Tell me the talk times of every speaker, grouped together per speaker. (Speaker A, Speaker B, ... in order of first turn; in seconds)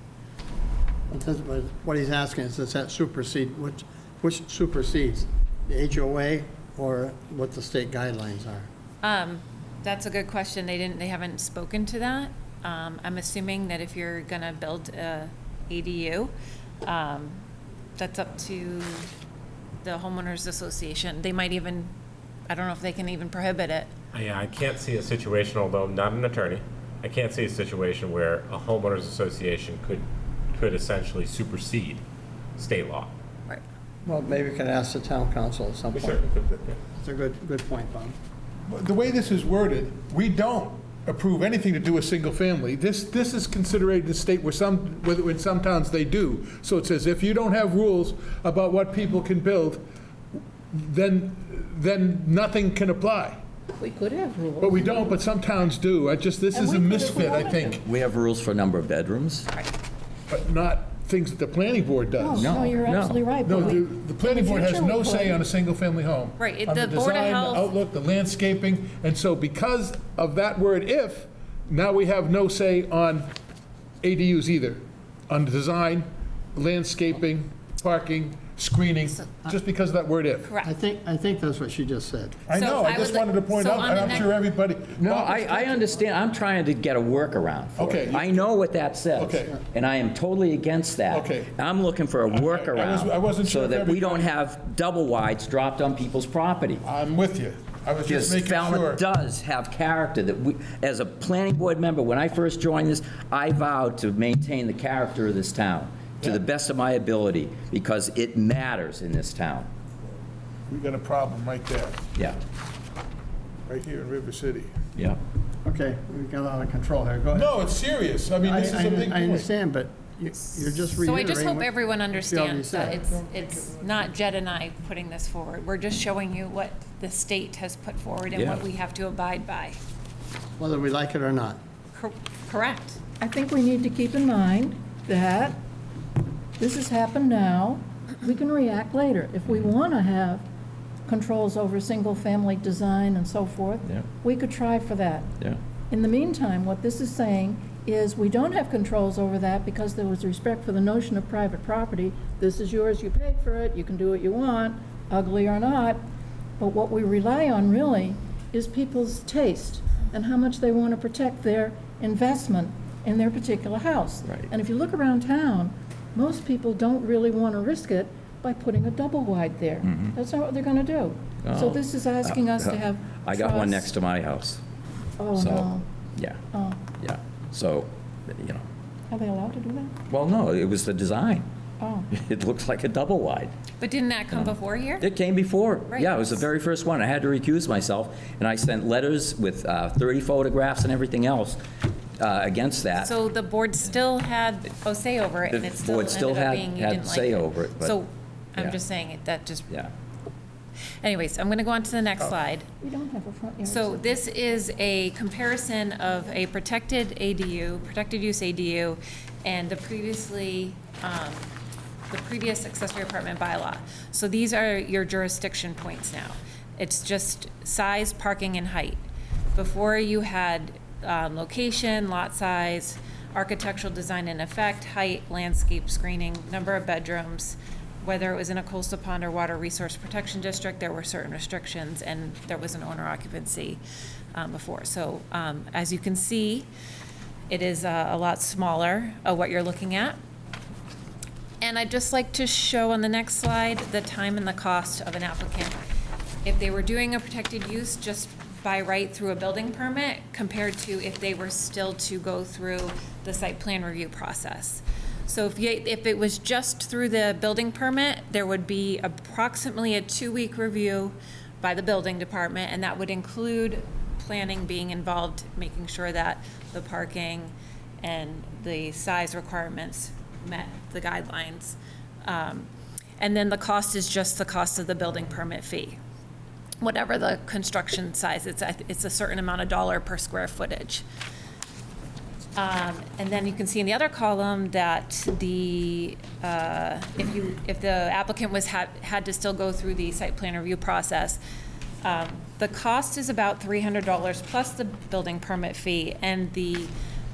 Speaker A: 1.1-8.7, 34.0-36.4, 37.0-38.2, 80.6-82.4, 115.6-117.6, 118.4-123.0, 130.6-131.6
Speaker B: 9.0-16.3, 16.8-17.4, 18.0-19.1, 19.8-21.9, 22.5-23.9, 66.4-67.7, 80.4-80.7, 82.5-84.3, 121.0-129.8, 131.9-133.0, 183.8-185.1, 185.9-186.3, 193.0-199.7, 201.0-202.7, 203.6-211.5, 212.1-219.0, 219.5-233.8, 234.3-236.7, 237.5-240.2, 241.6-245.8, 246.4-272.7, 273.2-276.0, 276.8-281.0, 282.6-291.4, 292.0-296.9
Speaker C: 24.1-32.0, 32.6-33.1, 35.9-36.6
Speaker D: 38.7-49.8, 50.7-53.4, 54.6-57.8, 60.3-62.7, 63.4-73.3, 74.0-80.5, 82.5-85.9, 87.8-88.5, 89.2-89.5, 91.1-91.5, 92.3-94.3, 96.8-99.0, 110.7-112.0, 113.7-114.7, 117.3-119.5, 123.1-124.0
Speaker E: 53.8-55.2, 56.5-57.8, 62.1-65.4, 133.2-135.6, 136.6-140.4, 141.1-145.3, 145.9-156.0, 156.6-173.9, 175.2-175.8, 176.5-176.8, 179.1-180.0, 181.8-182.1, 202.8-204.3
Speaker F: 57.7-59.5, 62.4-63.2, 85.0-96.8, 98.0-109.7, 128.3-128.6, 164.2-164.5, 169.8-170.1, 171.4-174.6, 175.3-178.6, 180.1-181.5, 182.1-183.5, 184.3-191.6, 192.2-193.1, 195.5-197.9